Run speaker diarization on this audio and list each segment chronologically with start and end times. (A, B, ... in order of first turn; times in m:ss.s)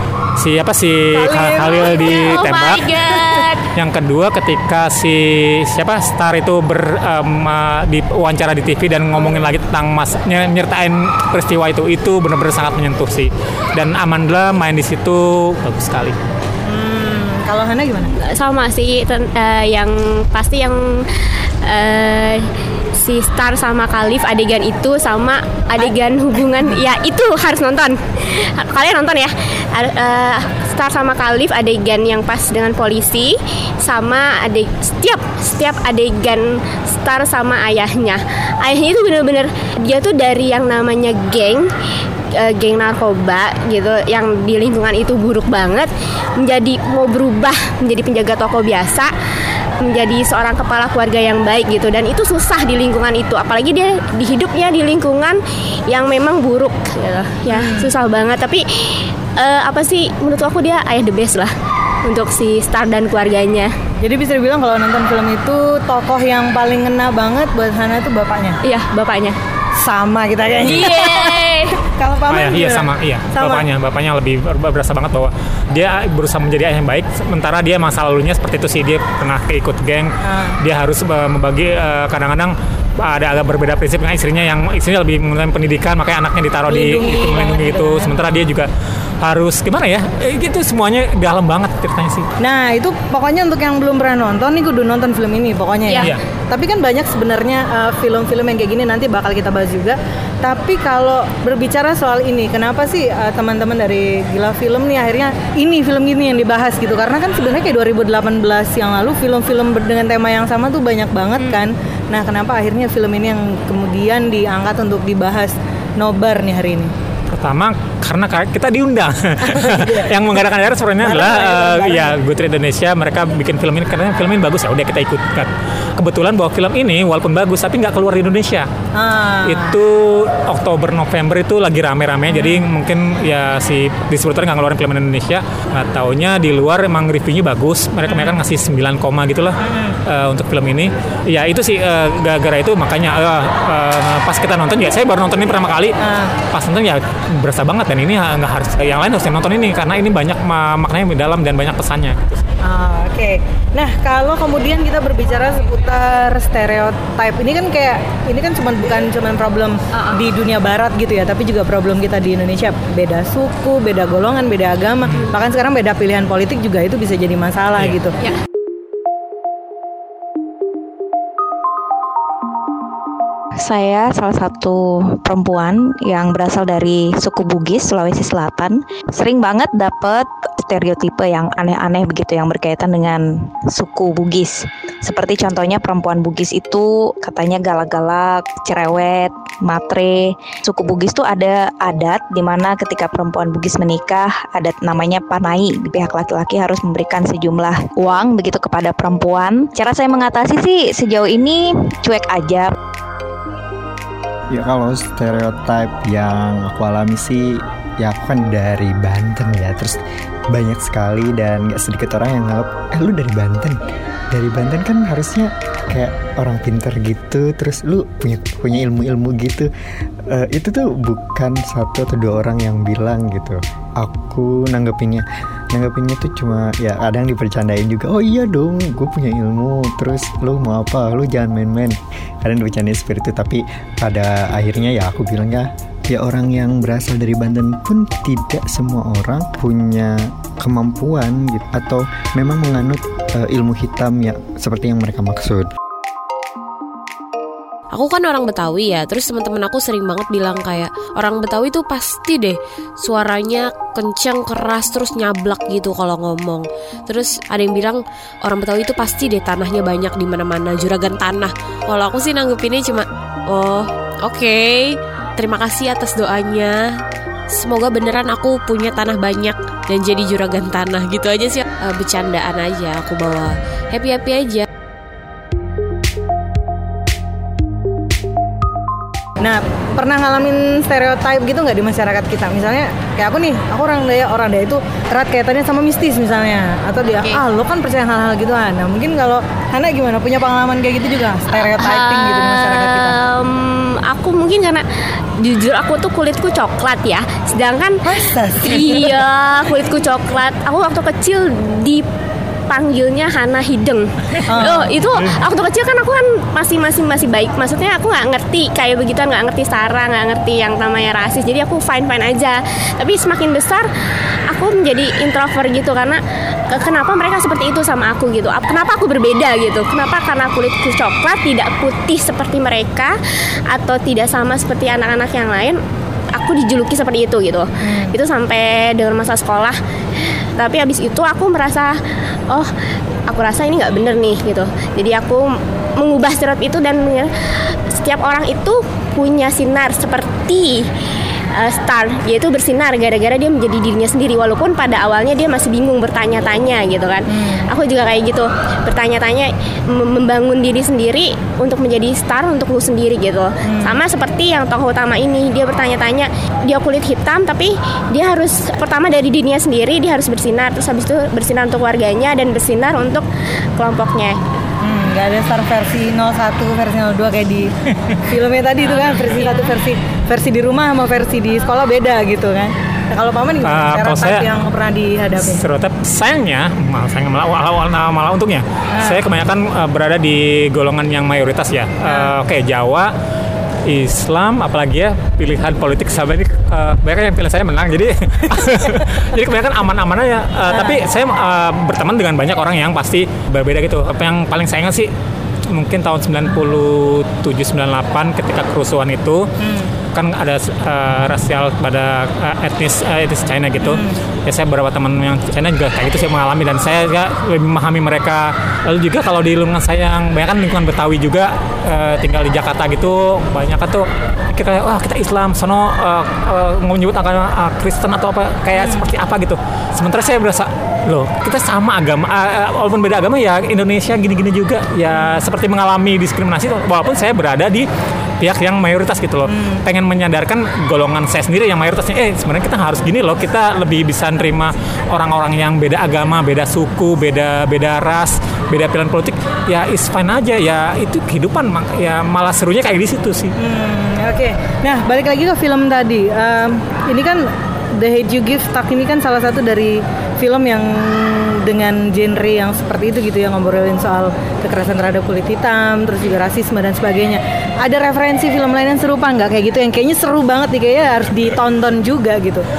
0:00.4-0:02.9 A
0:01.1-0:01.8 B
0:01.6-0:03.7 C
0:03.1-0:03.4 B
0:03.7-0:16.2 A
0:16.6-0:18.1 B
0:18.2-0:21.1 C
0:21.6-0:22.4 C
0:23.0-0:41.7 C
0:42.4-0:49.1 C
0:49.8-1:01.5 C
0:57.5-0:57.9 B
1:02.0-1:03.7 C
1:04.0-1:08.6 B
1:08.6-1:09.4 C
1:09.8-1:13.7 B
1:10.6-1:11.8 C
1:12.3-1:28.7 A
1:20.2-1:20.6 B
1:26.7-1:28.6 B
1:29.2-1:32.3 A
1:32.4-1:56.9 B
1:35.9-1:36.2 A
1:57.3-2:08.7 A
1:59.4-2:00.4 B
2:01.0-2:02.2 B
2:09.0-2:09.8 B
2:09.4-2:26.0 A
2:12.3-2:12.7 B
2:18.1-2:18.4 B
2:19.6-2:20.0 B
2:26.0-2:26.4 B
2:26.5-2:32.4 A
2:32.6-2:48.2 B
2:53.6-3:22.7 D
3:24.5-3:30.0 E
3:30.5-3:33.8 E
3:34.3-3:39.7 E
3:40.3-4:05.7 E
4:07.9-4:26.9 F
4:27.5-4:34.6 F
4:39.4-4:53.2 B
4:51.7-4:54.8 C
4:55.4-4:58.0 C
4:58.0-4:59.2 B
4:58.6-5:02.0 C
5:02.7-5:13.9 C
5:04.5-5:05.0 B
5:14.5-5:16.2 C
5:16.7-5:23.2 C
5:23.7-5:25.8 C
5:26.3-5:29.8 C
5:27.8-5:28.1 B
5:30.6-5:32.0 C
5:33.3-5:35.5 C
5:36.0-5:37.3 C
5:38.0-5:40.9 C
5:41.6-6:04.4 C
5:47.3-5:47.7 B
5:53.6-5:54.0 B
6:04.8-6:07.7 B
6:08.3-6:15.6 B
6:09.0-6:09.7 C
6:13.6-6:14.6 A
6:15.4-6:23.1 A
6:18.9-6:19.2 B
6:22.0-6:22.4 B
6:23.8-6:35.1 A
6:30.7-6:31.0 B
6:35.7-6:39.4 A
6:39.6-6:39.9 B
6:40.1-7:07.9 A
6:43.8-6:44.2 B
6:58.8-6:59.0 B
7:05.1-7:05.4 B
7:08.4-7:23.5 A
7:09.5-7:09.8 B
7:23.6-7:42.6 B